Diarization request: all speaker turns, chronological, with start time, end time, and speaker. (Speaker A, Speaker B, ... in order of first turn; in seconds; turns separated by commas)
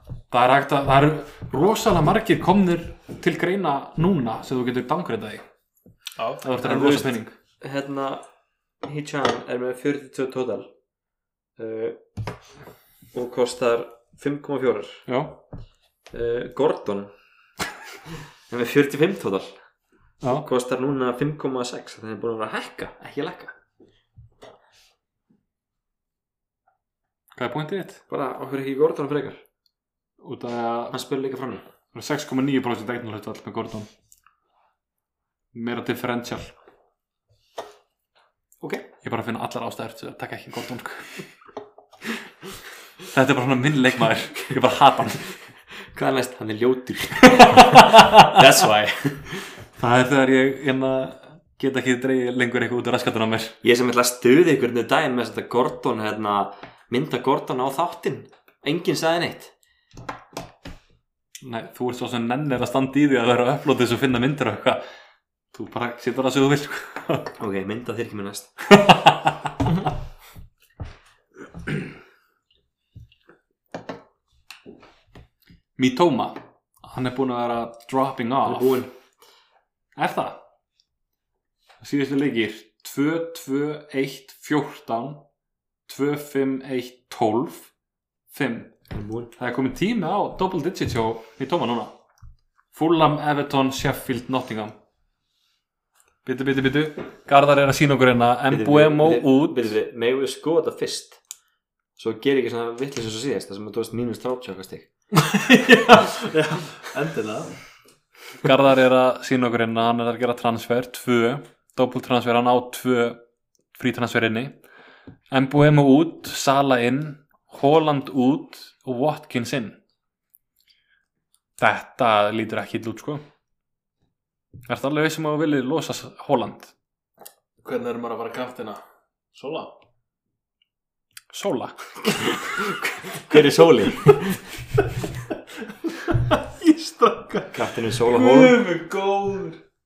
Speaker A: 0.3-5.5, Speaker B: 6.2-6.4, Speaker A: 6.4-7.3, Speaker C: 6.6-7.1, Speaker C: 7.6-8.2, Speaker C: 8.8-10.7, Speaker C: 11.6-12.0, Speaker C: 13.1-15.0, Speaker A: 15.1-15.4, Speaker C: 16.1-17.1, Speaker C: 18.5-19.6, Speaker A: 20.2-20.5, Speaker C: 20.3-23.6, Speaker A: 27.4-28.0, Speaker C: 28.1-29.4, Speaker A: 30.2-31.0, Speaker C: 30.9-31.7, Speaker A: 31.9-33.9, Speaker A: 35.5-36.5, Speaker C: 38.6-38.9, Speaker A: 39.0-41.2, Speaker A: 43.1-45.3, Speaker C: 45.9-49.3, Speaker A: 47.3-48.4, Speaker A: 49.8-53.6, Speaker C: 53.6-59.5, Speaker A: 61.4-64.8, Speaker A: 65.5-67.3, Speaker C: 67.4-68.5, Speaker A: 68.7-69.8, Speaker A: 75.8-78.9, Speaker C: 78.4-78.9, Speaker A: 80.0-80.4, Speaker A: 81.8-85.2, Speaker A: 85.9-87.7, Speaker A: 88.3-88.8, Speaker C: 88.9-89.3, Speaker A: 89.4-92.0, Speaker A: 92.7-94.8, Speaker A: 96.2-99.7, Speaker C: 98.5-101.2, Speaker C: 102.0-104.9, Speaker B: 105.1-107.5, Speaker A: 108.4-113.2, Speaker A: 113.8-114.6, Speaker A: 115.3-119.8, Speaker A: 121.6-123.2, Speaker A: 124.7-126.7, Speaker B: 127.6-128.8, Speaker B: 129.3-129.7, Speaker A: 131.3-131.8, Speaker C: 132.4-134.4, Speaker B: 135.9-139.6, Speaker C: 137.5-138.6